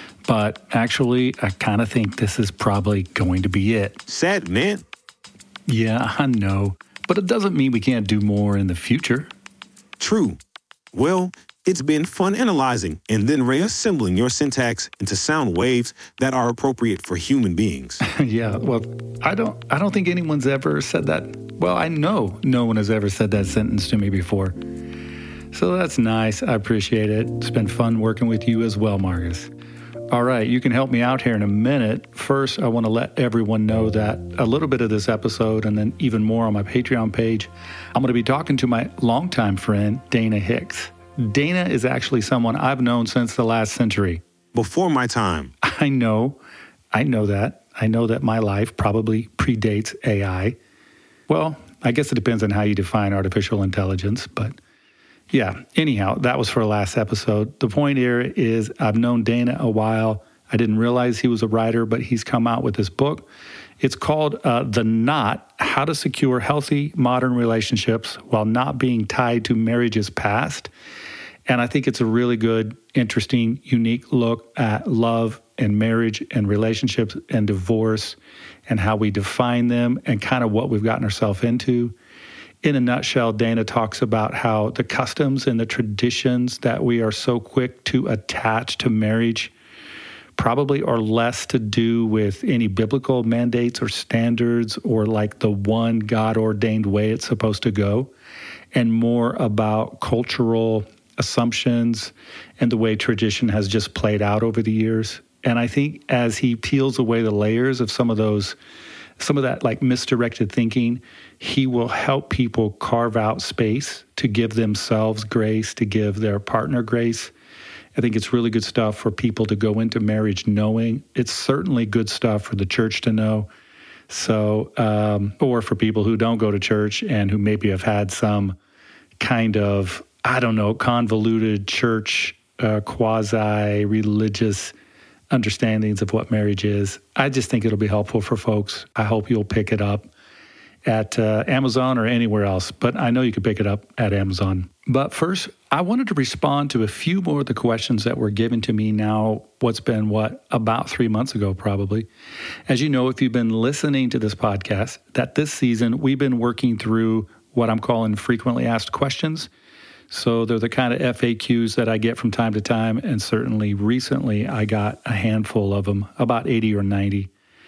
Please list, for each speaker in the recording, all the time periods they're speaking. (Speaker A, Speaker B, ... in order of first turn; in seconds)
Speaker A: 0.3-4.0, 5.7-9.3, 18.0-24.6, 25.5-29.5, 30.1-44.2, 45.6-46.4, 46.9-50.6, 51.3-54.6, 55.3-63.3, 63.8-70.7, 71.5-82.0, 82.6-89.5, 90.4-98.1, 98.7-108.6, 109.2-117.3, 117.9-123.5, 124.1-128.6, 129.2-134.7, 135.3-140.1, 140.8-152.1, 152.7-159.5, 160.1-167.3
Speaker B: 4.1-4.8, 10.0-10.4, 10.9-18.0, 44.5-45.5